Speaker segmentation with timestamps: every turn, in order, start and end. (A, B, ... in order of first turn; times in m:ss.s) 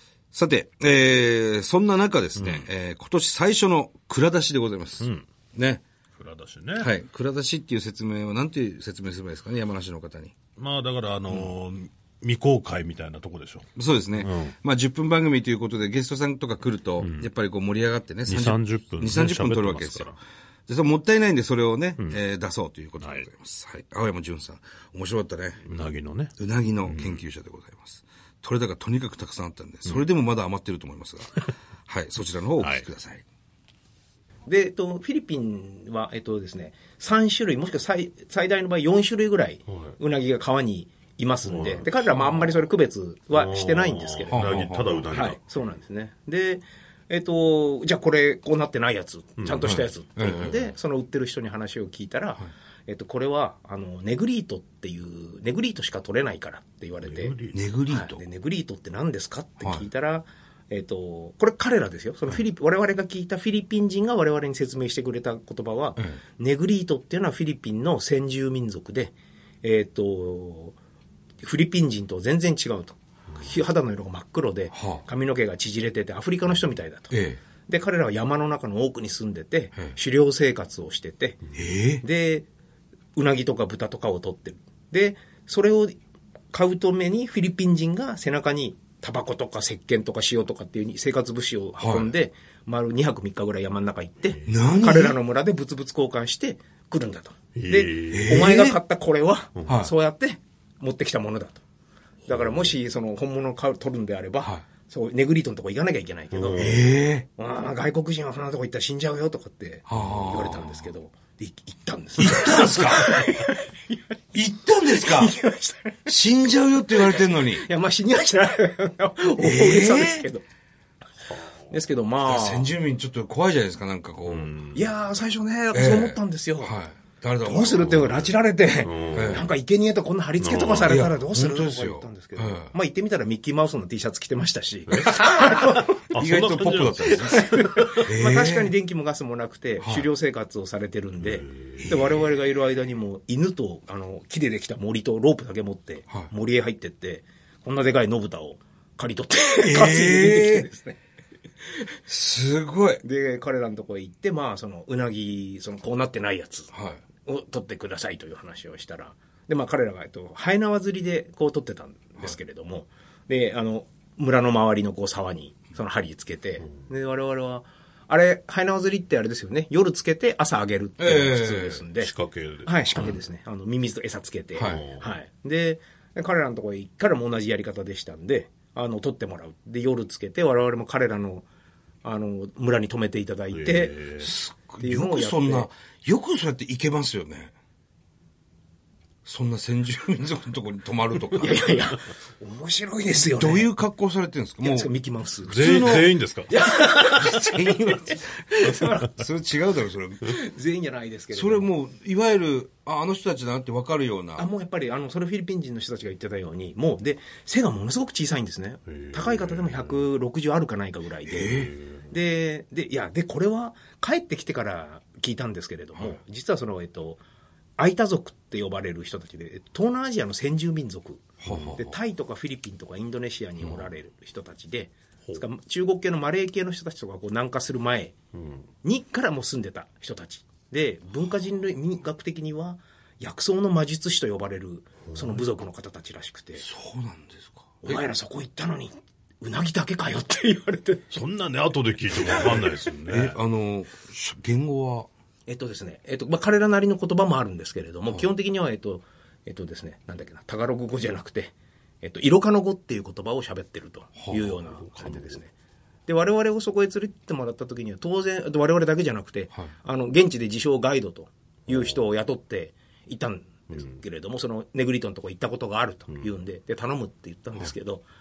0:00.3-0:05.8 A
0:02.4-0:02.7 B
0:06.2-0:06.9 B
0:06.8-0:10.3 A
0:10.6-0:14.6 B
0:13.8-0:20.1 A
0:17.0-0:17.3 B
0:18.3-0:20.2 B
0:20.7-0:25.6 A
0:23.0-0:23.3 B
0:25.6-0:27.2 B
0:26.4-0:33.2 A
0:32.6-0:32.8 B
0:34.5-0:57.4 C
0:39.7-0:40.0 B
0:41.4-0:42.6 B
0:43.3-0:45.4 B
0:44.3-0:45.2 A
0:49.4-0:49.9 B
0:50.2-0:50.6 A
0:57.0-0:57.6 B
0:57.5-0:58.2 A
0:57.9-1:10.8 C
1:11.4-1:17.1 C
1:14.7-1:15.0 A
1:17.1-1:17.4 A
1:17.7-1:21.4 C
1:21.5-1:22.0 A
1:22.0-1:22.5 C
1:23.2-1:26.0 C
1:26.5-1:41.6 C
1:31.8-1:32.1 A
1:34.5-1:35.2 A
1:37.6-1:38.5 B
1:38.1-1:38.8 A
1:39.6-1:39.9 A
1:42.3-1:46.7 C
1:46.3-1:46.9 B
1:46.6-1:47.3 A
1:47.4-1:54.0 C
1:49.9-1:50.8 A
1:52.2-1:53.3 A
1:54.3-1:55.4 A
1:54.8-1:56.2 C
1:56.1-1:57.7 A
1:56.9-2:00.4 C
1:59.4-2:00.3 A
2:01.7-2:02.7 C
2:02.2-2:04.5 A
2:04.3-2:04.9 B
2:04.7-2:06.7 C
2:05.7-2:08.3 A
2:07.4-2:16.1 C
2:08.8-2:09.5 B
2:09.1-2:09.5 A
2:10.4-2:11.1 B
2:10.8-2:12.7 A
2:15.7-2:18.0 B
2:16.1-2:18.7 A
2:17.1-2:31.0 C
2:19.8-2:20.1 A
2:21.8-2:22.2 A
2:29.6-2:30.7 A
2:32.1-2:33.0 A
2:33.0-2:36.7 C
2:36.7-2:37.0 A
2:37.2-3:01.4 C
2:51.0-2:51.8 A
2:52.0-2:53.2 B
2:54.6-2:54.8 A
2:54.6-2:55.1 B
3:02.0-3:04.0 C
3:03.5-3:04.3 B
3:04.2-3:07.5 A
3:04.8-3:05.7 C
3:09.2-3:11.6 A
3:11.4-3:13.7 C
3:13.4-3:14.9 A
3:14.6-3:19.2 C
3:15.5-3:16.5 B
3:15.5-3:16.1 A
3:17.1-3:18.4 A
3:18.9-3:20.4 A
3:20.2-3:21.7 C
3:21.3-3:24.5 A
3:24.4-3:37.2 C
3:28.9-3:30.0 B
3:31.3-3:31.7 A
3:31.4-3:32.1 B
3:37.8-3:48.2 C
3:41.4-3:41.9 A
3:48.8-3:56.6 C
3:56.6-3:58.0 A
3:57.8-4:01.1 C
4:01.1-4:03.4 B
4:02.3-4:05.1 A
4:05.5-4:15.5 C
4:14.3-4:15.4 B
4:16.1-4:28.0 C
4:23.7-4:24.0 B